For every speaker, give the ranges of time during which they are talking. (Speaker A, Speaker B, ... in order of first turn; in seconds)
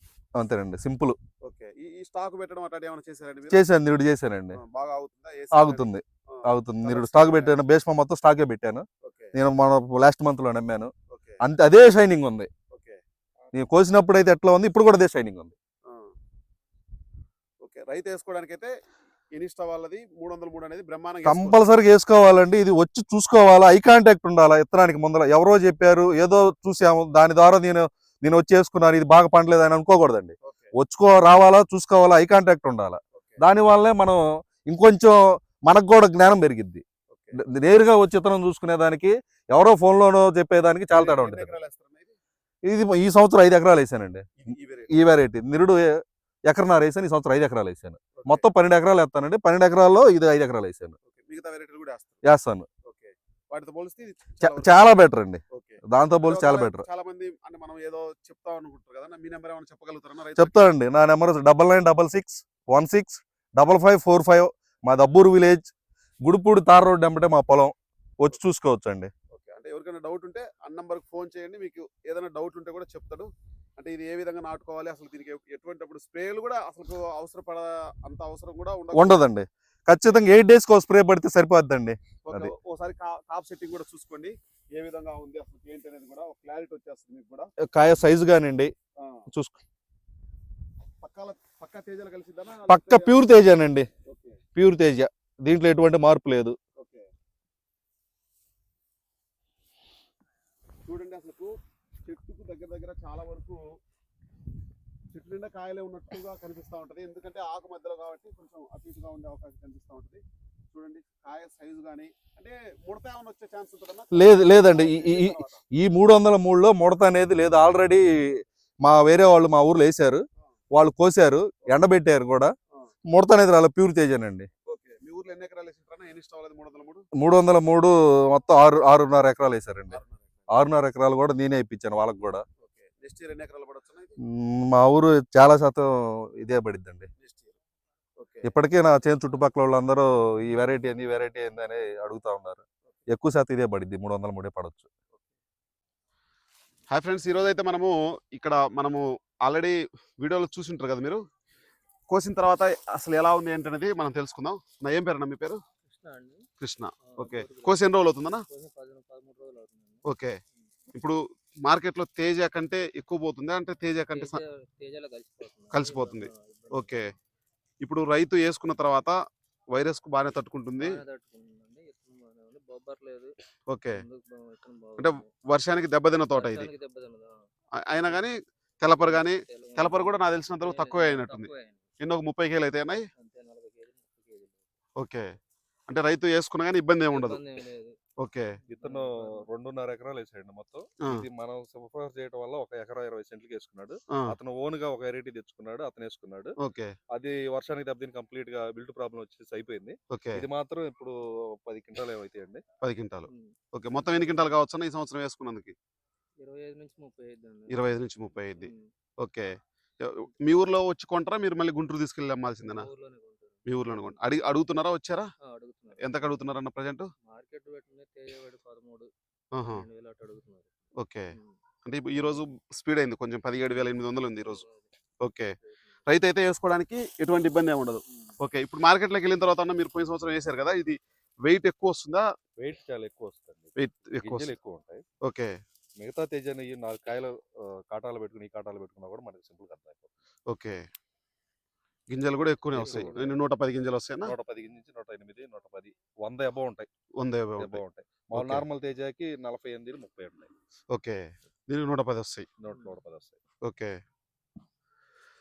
Speaker A: 0.3-1.2, 3.5-4.6, 5.5-12.5, 13.5-15.5, 21.2-36.8, 37.4-41.5, 42.6-44.3, 44.9-50.9, 52.2-52.7, 54.4-56.8, 60.4-65.7, 66.2-69.1, 78.9-82.5, 87.6-88.7, 89.3-89.6, 92.7-93.9, 94.5-96.5, 114.1-122.5, 123.1-124.5, 127.2-130.0, 130.5-132.4, 134.2-137.1, 138.4-144.9, 188.7-196.5, 197.1-202.6, 232.6-235.0, 236.0-240.1, 242.7-243.4, 244.2-246.9, 247.6-250.5, 252.6-253.4
Speaker B: 1.4-3.6, 4.5-7.6, 9.0-9.3, 11.1-11.4, 12.7-13.0, 15.8-16.1, 17.6-18.7, 19.3-21.6, 30.4-30.7, 33.2-33.4, 37.1-37.4, 40.9-42.2, 44.4-44.9, 48.1-48.4, 51.0-52.2, 52.8-54.9, 55.5-60.6, 69.3-79.2, 82.2-87.5, 89.0-89.2, 91.0-93.3, 94.0-94.4, 96.7-97.1, 100.8-103.8, 105.1-115.6, 124.7-127.1, 129.9-130.4, 132.6-134.2, 137.2-137.5, 138.2-138.5, 146.9-151.2, 152.1-155.6, 156.6-158.4, 160.0-160.4, 160.9-164.4, 165.7-167.1, 167.8-169.2, 169.7-171.0, 173.7-174.0, 175.0-176.7, 177.8-183.1, 185.0-185.3, 185.9-187.4, 188.2-188.6, 196.6-196.9, 200.1-200.4, 202.8-205.7, 207.7-212.9, 213.7-215.3, 215.9-217.1, 219.5-219.8, 221.0-221.3, 221.8-224.6, 225.2-225.5, 226.1-232.2, 233.8-234.5, 235.2-235.5, 240.5-240.8, 242.1-244.3, 247.2-247.8, 248.3-248.6, 250.9-252.5, 253.6-254.0
Speaker C: 155.9-156.5, 157.1-157.9, 158.5-160.1, 164.1-167.2, 170.8-173.3, 173.9-175.3, 176.3-177.4, 178.9-181.8, 183.2-184.6, 187.1-188.0, 188.7-189.4, 203.3-203.5, 206.4-207.8, 208.6-208.9, 212.6-214.1, 215.4-216.2, 217.2-220.7, 224.4-224.8, 252.7-252.9